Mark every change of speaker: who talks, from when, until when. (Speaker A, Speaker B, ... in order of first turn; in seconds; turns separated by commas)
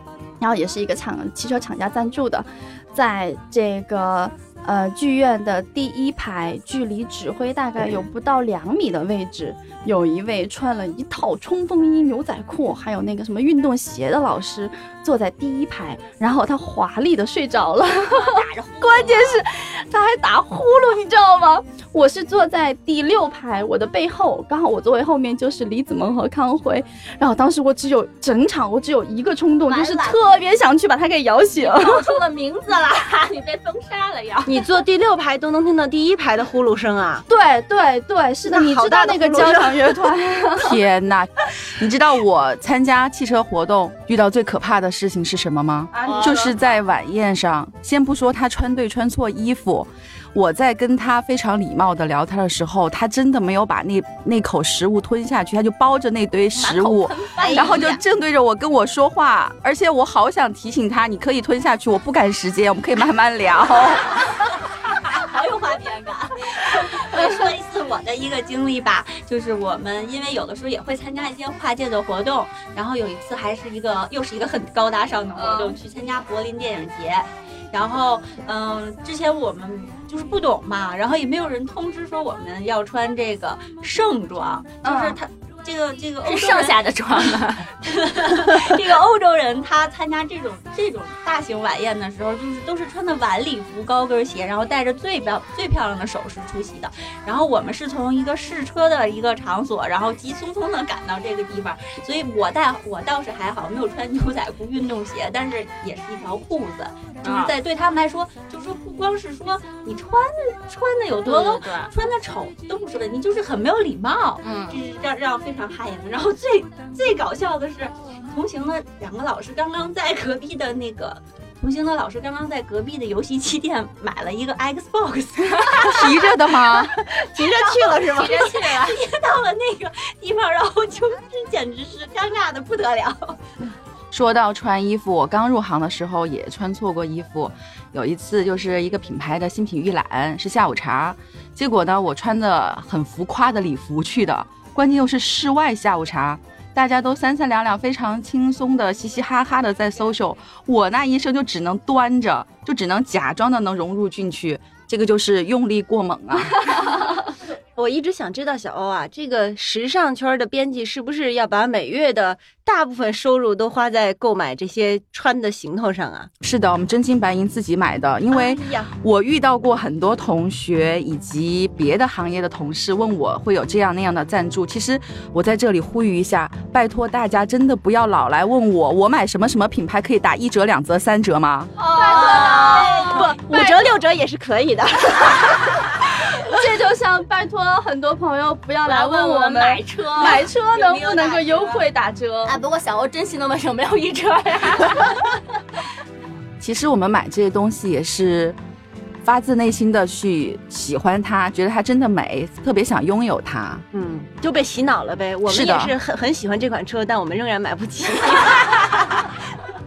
Speaker A: 0.4-32.2, Speaker B: 18.1-19.4, Speaker B: 29.7-30.2, Speaker B: 31.6-34.7, Speaker C: 34.5-37.2, Speaker A: 37.3-40.8, Speaker C: 38.5-40.0, Speaker D: 40.6-64.2, Speaker A: 46.0-46.5, Speaker B: 46.0-46.5, Speaker B: 56.6-57.8, Speaker C: 57.4-58.0, Speaker E: 64.9-133.4, Speaker A: 75.3-75.8, Speaker A: 84.8-85.2, Speaker B: 86.2-87.7, Speaker B: 107.2-107.5, Speaker B: 111.2-111.9, Speaker B: 114.4-114.8, Speaker D: 125.8-127.0, Speaker C: 127.1-128.7, Speaker B: 128.1-128.9, Speaker D: 134.1-156.7, Speaker C: 157.8-166.3, Speaker D: 166.4-181.7, Speaker C: 168.3-168.9, Speaker B: 181.8-183.2, Speaker A: 181.9-183.9, Speaker C: 182.1-185.9, Speaker E: 182.1-183.2, Speaker A: 186.4-192.6, Speaker B: 188.8-190.5, Speaker E: 190.6-191.8, Speaker B: 192.4-195.4, Speaker D: 196.6-198.6, Speaker D: 199.2-203.8, Speaker C: 203.9-209.1, Speaker D: 205.4-205.9